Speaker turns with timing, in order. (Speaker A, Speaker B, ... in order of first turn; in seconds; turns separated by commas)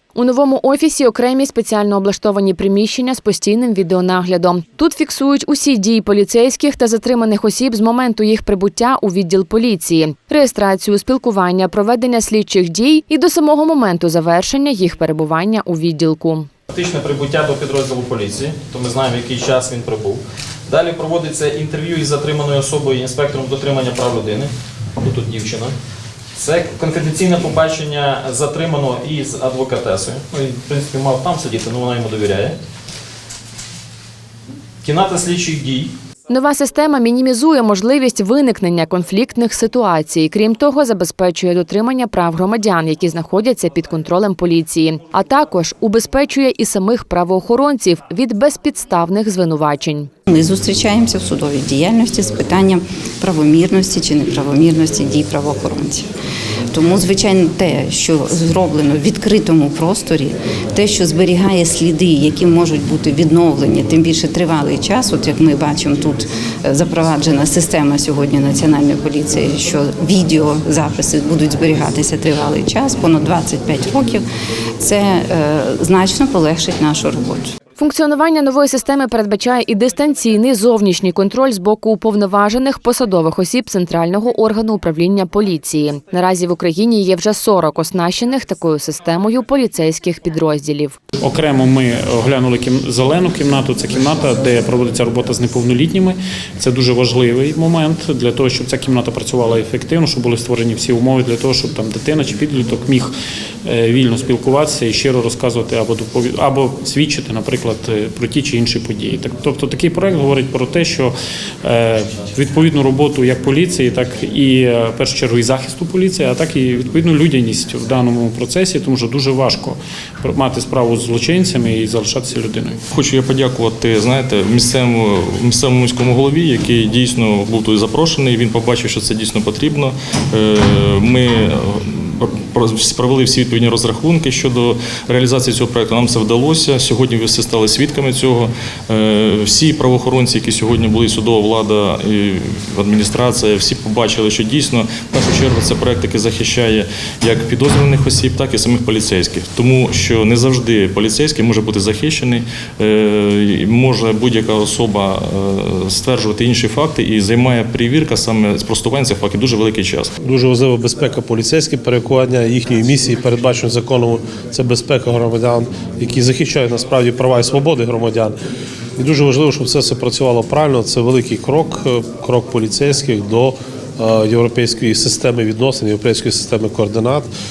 Speaker A: 0.1-16.5, Speaker B: 16.7-25.7, Speaker B: 26.4-32.5, Speaker B: 34.8-35.9, Speaker A: 36.3-50.1, Speaker C: 50.3-56.1, Speaker C: 56.7-74.2, Speaker C: 74.8-77.5, Speaker A: 77.8-91.0, Speaker D: 91.2-103.1, Speaker D: 103.6-122.8, Speaker E: 122.9-160.1, Speaker F: 160.2-168.3, Speaker F: 169.0-177.3